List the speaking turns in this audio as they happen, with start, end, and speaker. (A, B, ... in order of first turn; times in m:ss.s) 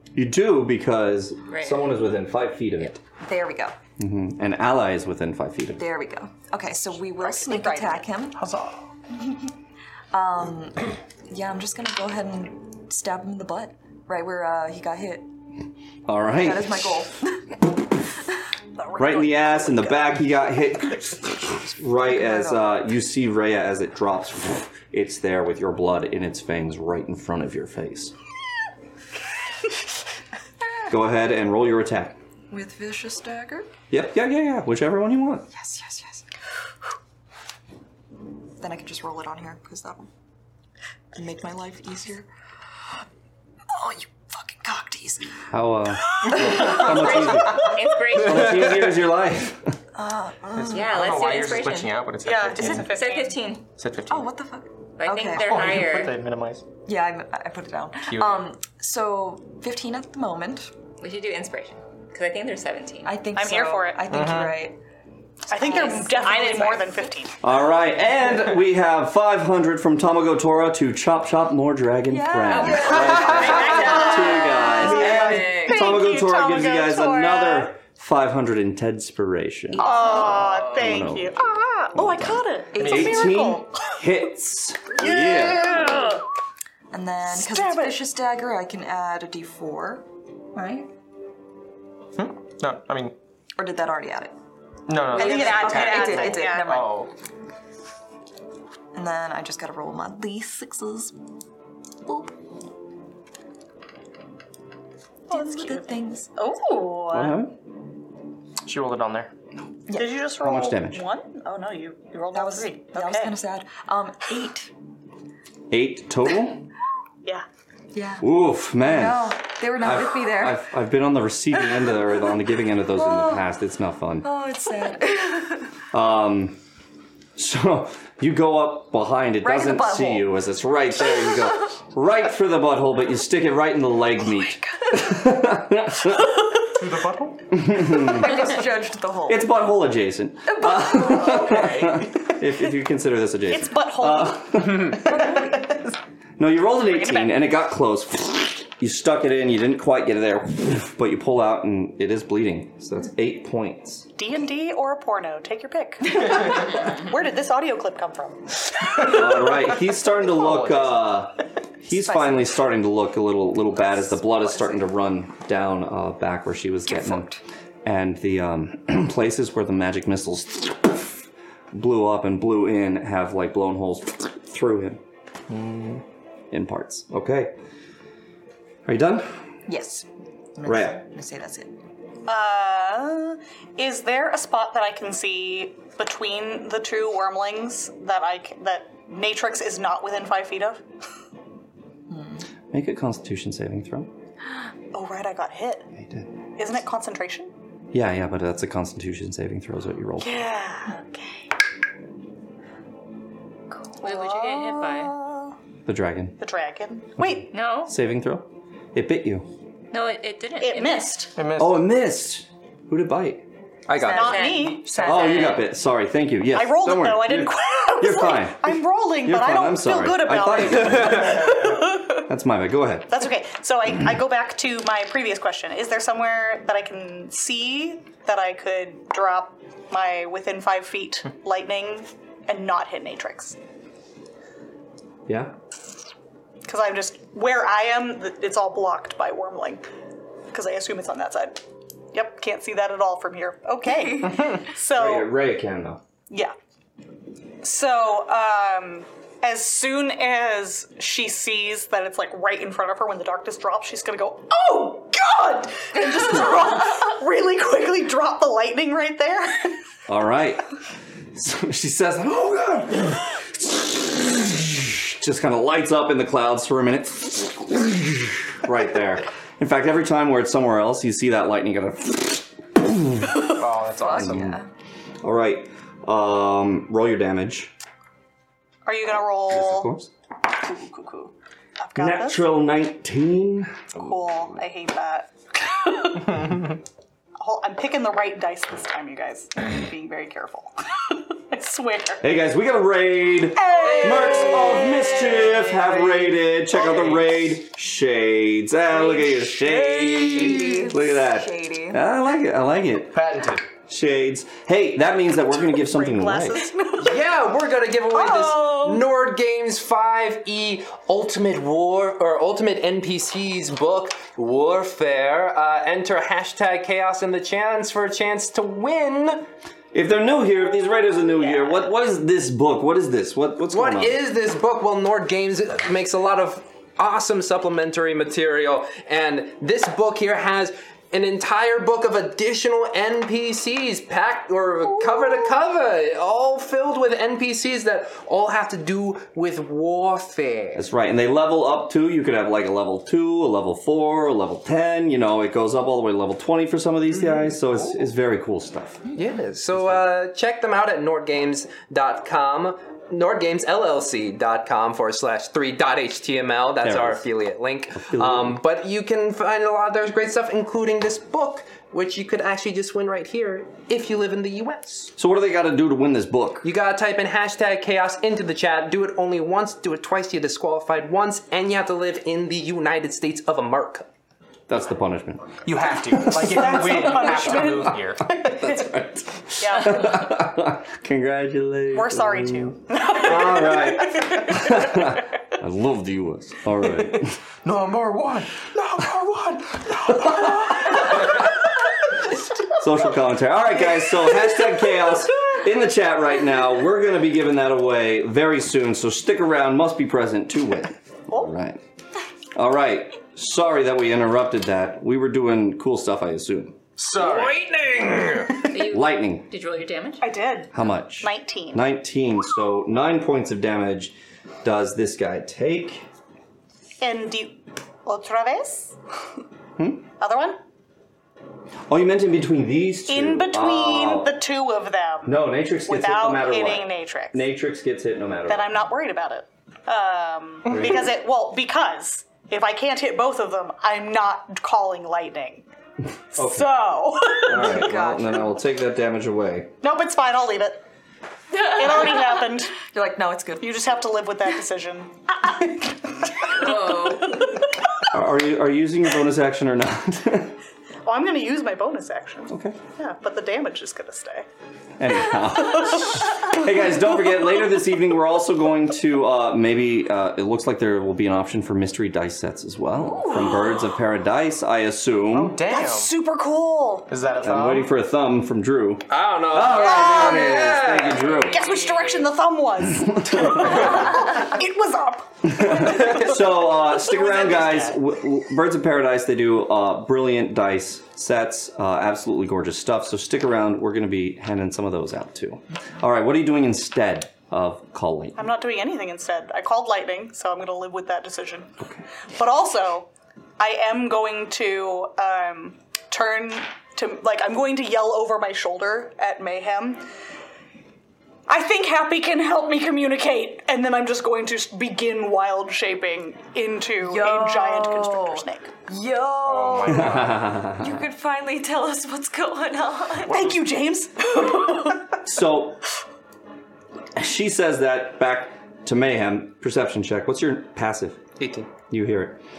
0:00.2-0:03.0 A
0:01.5-0:02.0 B
0:03.2-0:03.8 C
0:04.0-0:05.8 A
0:05.8-0:08.4 C
0:07.2-0:08.1 D
0:08.4-0:08.7 E
0:10.1-0:15.3 C
0:16.1-0:17.1 A
0:16.3-0:17.5 C
0:18.8-0:20.1 D
0:19.0-0:28.2 A
0:22.0-0:22.7 C
0:30.9-0:32.2 A
0:32.5-0:33.7 C
0:33.9-0:35.5 A
0:35.5-0:36.3 C
0:38.6-0:40.1 C
0:41.2-0:42.3 C
0:43.7-0:45.3 C
0:45.5-0:49.8 A
0:46.4-0:46.9 C
0:46.6-0:48.9 B
0:49.9-0:51.0 C
0:50.6-0:53.0 E
0:50.7-0:52.1 B
0:52.2-0:53.4 D
0:52.6-0:53.7 B
0:53.8-0:54.3 E
0:54.1-0:55.6 C
0:55.0-0:56.2 B
0:55.4-0:56.6 E
0:56.9-1:00.7 C
0:58.1-0:58.5 E
1:01.0-1:03.3 B
1:03.0-1:04.8 C
1:03.3-1:04.1 D
1:04.1-1:04.6 E
1:05.5-1:07.1 C
1:05.5-1:07.4 D
1:05.9-1:06.8 B
1:07.4-1:19.9 A
1:12.1-1:15.2 C
1:12.5-1:16.0 B
1:13.8-1:17.7 D
1:19.8-1:20.9 B
1:19.8-1:20.4 C
1:19.8-1:24.0 D
1:20.6-1:21.4 A
1:22.0-1:25.8 A
1:22.7-1:23.4 C
1:25.0-1:26.2 D
1:26.9-1:30.9 C
1:27.3-1:28.0 D
1:32.2-1:33.2 E
1:33.6-1:34.3 C
1:34.9-1:37.1 E
1:35.1-1:36.7 D
1:35.1-1:37.1 C
1:38.9-1:41.1 C
1:42.1-1:42.3 C
1:45.3-1:47.4 D
1:45.3-1:46.3 C
1:47.1-1:47.6 A
1:48.6-1:49.3 E
1:49.9-1:50.2 C
1:49.9-1:53.4 D
1:50.4-1:51.0 A
1:52.3-1:54.7 C
1:55.7-1:56.6 A
1:57.9-2:00.7 C
1:58.2-2:04.3 A
2:02.9-2:03.5 C
2:04.2-2:05.7 C
2:05.9-2:06.6 A
2:07.4-2:16.4 A
2:09.4-2:10.3 C
2:16.8-2:17.4 E
2:17.5-2:18.5 A
2:17.9-2:19.5 C
2:19.3-2:25.0 A
2:20.5-2:21.7 C
2:21.3-2:22.1 E
2:23.5-2:24.6 D
2:25.1-2:25.7 C
2:26.4-2:34.1 A
2:26.8-2:27.4 D
2:34.2-2:38.5 D
2:39.0-2:55.0 A
2:40.3-2:41.1 E
2:42.1-2:42.5 C
2:43.9-2:44.8 C
2:46.9-2:47.4 C
2:55.5-2:56.0 E
2:56.5-2:57.6 A
2:58.8-2:59.3 A
2:59.7-3:01.7 C
3:00.6-3:01.0 A
3:02.3-3:10.8 D
3:12.1-3:12.4 C
3:12.7-3:14.1 A
3:14.9-3:15.9 D
3:16.0-3:16.3 A
3:16.6-3:17.5 D
3:17.9-3:20.5 A
3:20.2-3:21.5 D
3:23.8-3:24.8 D
3:24.0-3:25.2 B
3:25.8-3:26.4 A
3:26.4-3:27.5 D
3:27.2-3:29.5 A
3:27.5-3:28.0 B
3:29.9-3:31.3 B
3:30.6-3:31.4 D
3:31.4-3:31.9 E
3:31.6-3:33.4 A
3:33.9-3:34.4 F
3:34.0-3:34.4 C
3:34.0-3:35.6 D
3:34.1-3:35.7 B
3:35.0-3:43.2 A
3:36.5-3:42.2 D
3:40.8-3:41.6 F
3:43.1-3:53.6 D
3:55.3-3:55.5 A
3:56.6-3:59.8 D
4:00.5-4:01.6 D
4:02.1-4:05.3 D
4:05.0-4:06.0 A
4:06.3-4:06.6 D
4:07.6-4:19.8 D
4:20.1-4:20.6 A
4:21.3-4:33.5 A
4:33.6-4:34.6 E
4:34.0-4:34.7 C
4:34.1-4:34.6 A
4:35.2-4:37.7 A
4:38.9-4:39.9 D
4:39.5-4:40.1 A
4:40.5-4:42.5 D
4:42.0-4:43.8 A
4:43.9-4:46.4 D
4:47.4-4:52.2 D
4:52.2-5:03.3 A
4:53.5-4:55.3 D
4:59.0-5:02.0 C
5:03.1-5:03.7 E
5:03.8-5:06.7 A
5:05.8-5:07.3 D
5:07.0-5:19.5 F
5:08.1-5:09.0 D
5:19.9-5:24.2 A
5:23.7-5:40.8 F
5:40.8-5:49.0 A
5:49.1-6:05.1 F
5:49.7-5:50.1 A
5:56.8-5:57.2 A
5:58.0-5:58.6 A
6:05.2-6:06.7 A
6:06.6-6:14.1 F
6:14.7-6:15.6 A
6:15.6-6:18.7 E
6:16.1-6:16.8 A
6:16.5-6:18.0 D
6:18.4-6:27.4 A
6:19.6-6:20.2 D
6:21.9-6:24.2 D
6:26.9-6:31.5 E
6:32.8-6:41.8 A
6:42.6-6:46.8 A
6:47.0-6:48.6 E
6:48.7-6:50.4 B
6:48.8-6:49.5 A
6:50.2-6:51.8 D
6:50.7-6:56.0 A
6:57.0-6:59.0 D
6:59.8-7:00.0 A
7:00.2-7:00.6 D
7:01.9-7:04.4 A
7:03.1-7:07.4 D
7:05.2-7:08.7 A
7:08.5-7:15.7 D
7:10.7-7:11.1 A
7:16.4-7:19.7 A
7:16.4-7:17.9 D
7:17.5-7:18.5 C
7:19.8-7:20.8 D
7:21.6-7:22.8 D
7:22.8-7:23.9 C
7:23.6-7:26.0 D
7:26.5-7:27.6 D
7:26.6-7:27.2 B
7:28.1-7:30.5 A
7:31.0-7:34.5 D
7:32.5-7:32.8 A
7:35.0-7:45.6 A
7:35.5-7:36.3 D
7:43.0-7:43.8 C
7:45.3-7:46.1 E
7:45.7-7:47.1 D
7:47.1-7:47.9 E
7:47.4-7:51.6 A
7:49.1-7:51.2 F
7:49.7-7:56.2 D
7:51.1-7:52.3 B
7:53.1-7:53.8 A
7:55.4-8:08.5 A
7:57.0-7:58.0 E
8:08.4-8:11.7 D
8:11.8-8:12.0 A
8:12.4-8:20.0 D
8:21.5-8:28.7 D
8:27.0-8:33.5 C
8:29.4-8:30.5 E
8:29.9-8:31.0 A
8:33.3-8:35.2 D
8:35.2-8:35.8 A
8:37.2-8:41.3 A
8:41.4-8:41.7 F
8:41.9-8:42.4 A